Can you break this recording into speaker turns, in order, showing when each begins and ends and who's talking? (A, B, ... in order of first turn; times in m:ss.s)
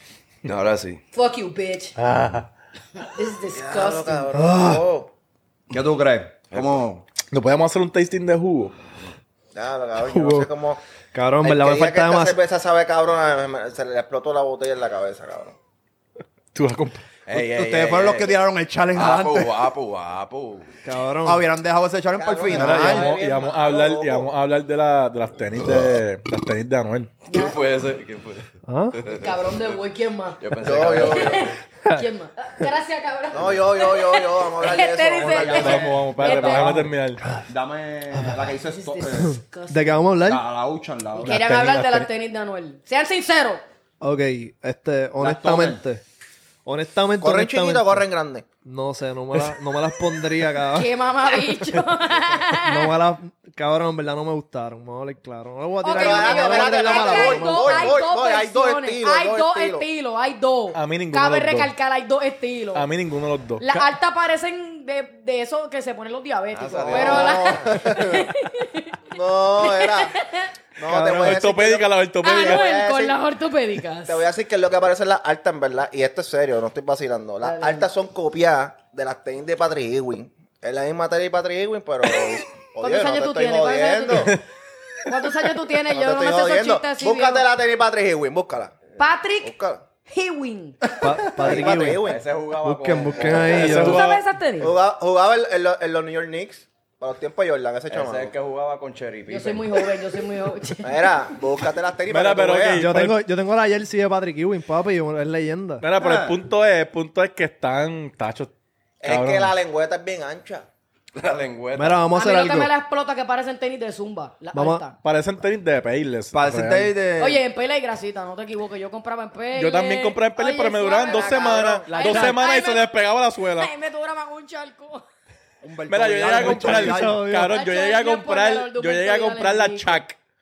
0:00.4-0:01.0 A
0:01.1-0:02.0 B
0:02.0-0:02.5 C
0:03.2-0:04.3 B
0:03.5-0:05.1 D
0:04.3-0:04.8 E
0:05.7-0:07.0 F
0:06.5-0:06.9 A
0:07.3-0:08.7 C
0:09.5-0:10.8 D
0:10.1-0:10.4 E
0:11.1-0:12.4 E
0:11.4-0:15.6 D
0:16.5-0:17.0 C
0:17.2-0:18.4 A
0:17.3-0:19.7 F
0:18.9-0:20.7 A
0:20.8-0:21.4 E
0:21.2-0:23.1 F
0:22.1-0:24.3 D
0:22.5-0:27.1 C
0:27.3-0:27.6 B
0:27.3-0:29.8 A
0:28.7-0:29.0 E
0:29.1-0:36.8 B
0:30.4-0:31.6 A
0:30.6-0:31.4 D
0:33.3-0:36.1 D
0:35.2-0:36.7 F
0:35.4-0:37.2 C
0:36.5-0:37.4 E
0:37.5-0:39.3 F
0:38.1-0:38.4 E
0:38.5-0:40.0 B
0:39.2-0:40.4 E
0:40.2-0:41.5 F
0:41.2-0:43.6 B
0:41.2-0:42.1 C
0:44.0-0:46.0 E
0:45.2-0:45.8 F
0:46.6-0:48.0 E
0:47.2-0:48.4 D
0:48.6-0:50.9 E
0:50.7-0:53.0 B
0:52.6-0:57.9 E
0:55.8-1:02.9 B
0:55.9-0:59.8 D
1:00.7-1:01.7 C
1:02.7-1:03.6 C
1:03.6-1:09.0 B
1:06.5-1:07.8 A
1:06.7-1:08.3 D
1:09.1-1:10.1 D
1:09.6-1:10.5 B
1:10.8-1:13.2 D
1:10.9-1:11.4 E
1:10.9-1:12.6 C
1:12.2-1:14.2 B
1:14.0-1:24.4 D
1:17.4-1:17.9 B
1:22.8-1:24.4 B
1:25.1-1:27.4 B
1:25.9-1:28.9 D
1:29.0-1:29.5 B
1:29.4-1:29.8 D
1:30.1-1:30.8 B
1:31.0-1:32.0 E
1:31.4-1:32.2 D
1:31.4-1:33.9 A
1:32.6-1:34.0 E
1:33.4-1:34.2 C
1:33.7-1:34.8 B
1:34.6-1:38.3 D
1:37.9-1:40.0 A
1:39.3-1:41.2 B
1:40.8-1:42.9 D
1:42.1-1:43.2 C
1:42.7-1:45.8 E
1:45.8-1:48.5 C
1:46.0-1:46.4 F
1:49.0-1:50.7 D
1:49.0-1:49.5 C
1:51.1-1:52.0 A
1:51.8-1:52.7 E
1:52.1-1:55.0 B
1:54.5-1:54.8 E
1:55.0-1:56.9 C
1:56.3-1:57.4 F
1:57.2-2:05.0 B
1:59.5-2:03.7 C
2:01.1-2:01.7 D
2:01.9-2:02.5 E
2:05.6-2:07.2 F
2:05.9-2:10.2 C
2:06.3-2:07.5 E
2:07.4-2:10.1 B